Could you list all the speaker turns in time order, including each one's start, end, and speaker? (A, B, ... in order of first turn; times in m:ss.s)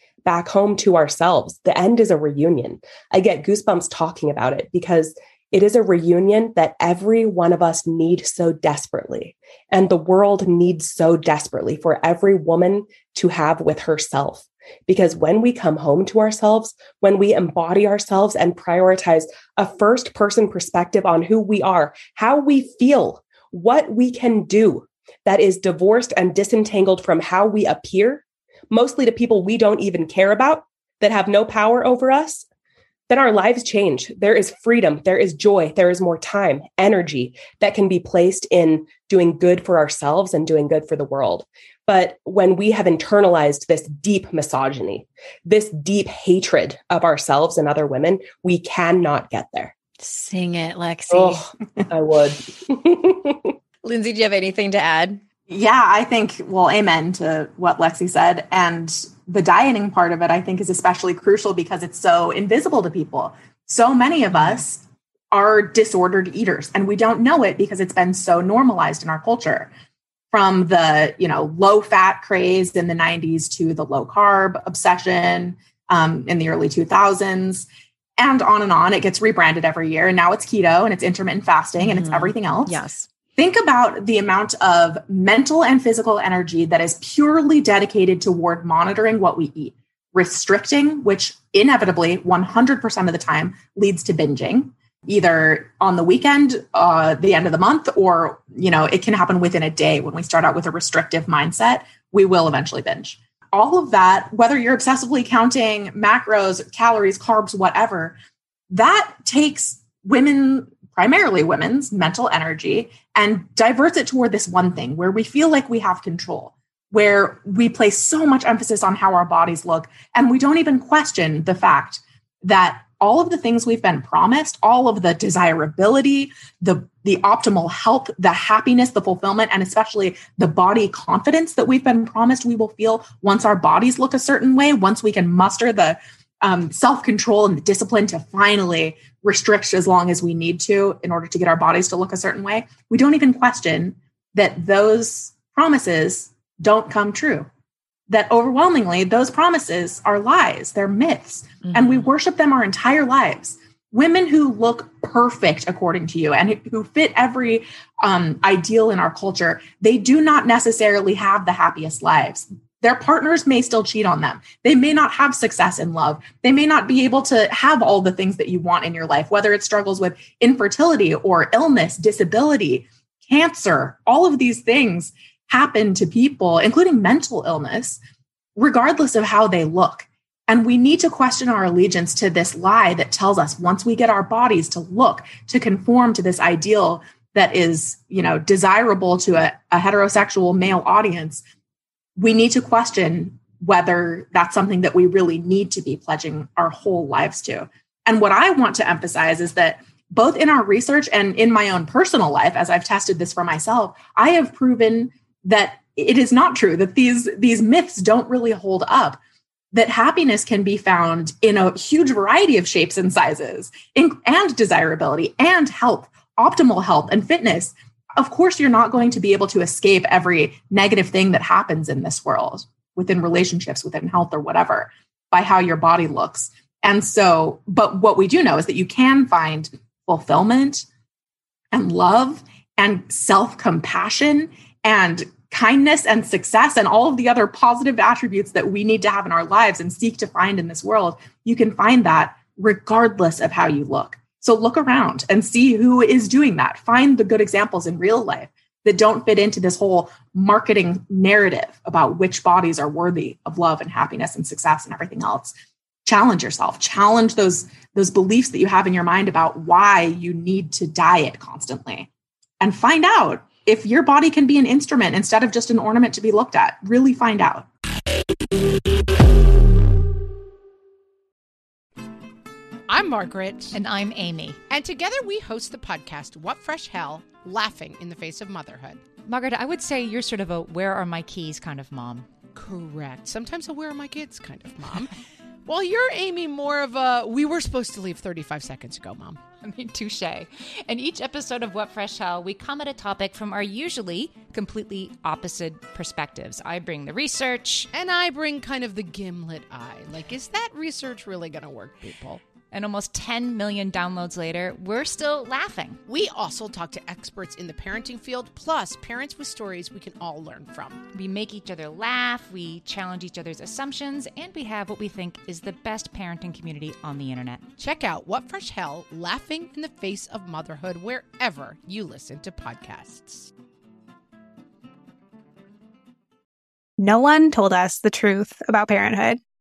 0:00.2-0:32.4 A
0:33.1-0:49.7 A
0:50.0-0:51.5 B
0:51.1-0:53.5 A
0:53.8-0:55.2 B
0:55.5-1:09.7 C
1:10.3-1:17.6 C
1:18.2-1:22.8 C
1:21.8-1:23.1 B
1:23.4-1:48.2 C
1:48.7-2:27.5 C
2:28.1-2:58.0 C
2:58.6-3:11.4 C
3:12.2-3:29.2 C
3:29.7-3:50.8 C
3:51.7-4:15.5 C
4:16.0-4:22.1 C
4:22.6-4:27.7 C
4:32.9-4:33.8 D
4:33.7-4:34.6 E
4:34.7-4:39.1 D
4:39.2-4:42.3 E
4:42.5-4:45.1 D
4:45.6-4:49.4 D
4:49.6-4:57.9 E
4:57.9-5:02.4 D
5:02.7-5:06.0 E
5:06.1-5:11.0 D
5:11.1-5:17.6 E
5:17.8-5:23.5 D
5:27.0-5:29.4 F